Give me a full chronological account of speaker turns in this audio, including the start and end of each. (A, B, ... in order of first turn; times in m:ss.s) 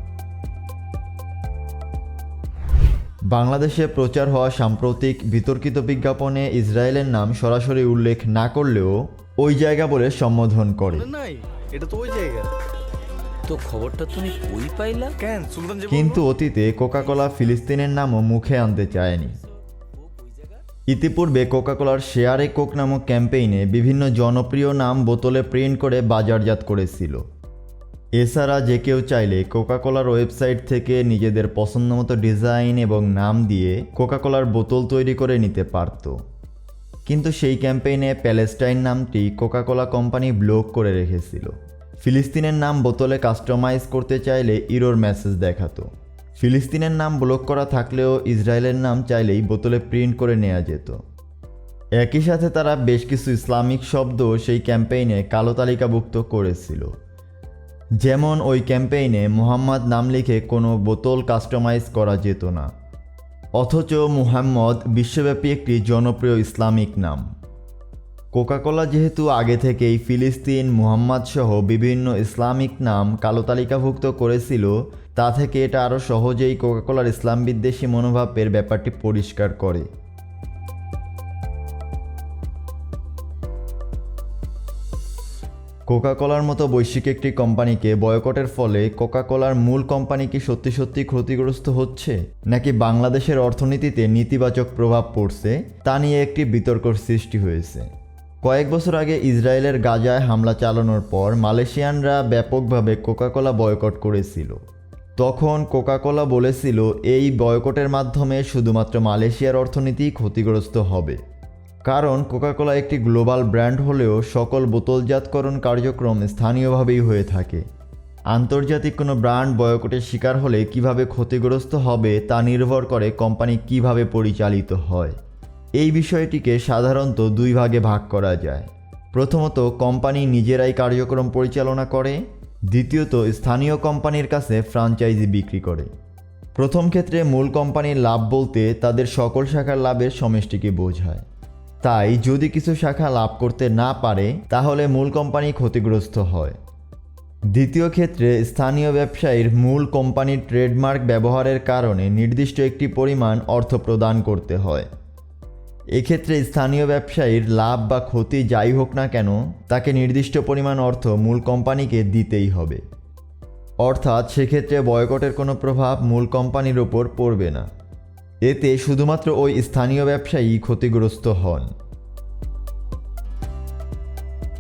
0:03.3-0:11.1 A
0:11.2-0:12.5 B
0:11.6-0:12.5 C
0:13.4-0:15.2 C
0:15.2-0:15.9 B
0:15.9-0:19.4 A
0:20.2-0:20.6 C
0:20.9-0:27.2 A
0:28.2-0:36.2 A
0:37.1-0:51.0 A
0:52.0-0:56.9 A
0:58.0-1:02.7 A
1:03.6-1:07.3 A
1:08.3-1:19.9 A
1:25.9-1:37.9 A
1:38.4-1:44.6 A
1:45.2-1:51.2 A
1:51.9-1:57.6 A
1:58.3-2:05.2 A
2:05.8-2:15.9 A
2:16.6-2:21.2 A
2:21.8-2:26.6 A
2:27.5-2:34.9 A
2:36.0-2:42.8 A
2:43.8-2:47.7 A
2:48.4-2:51.7 A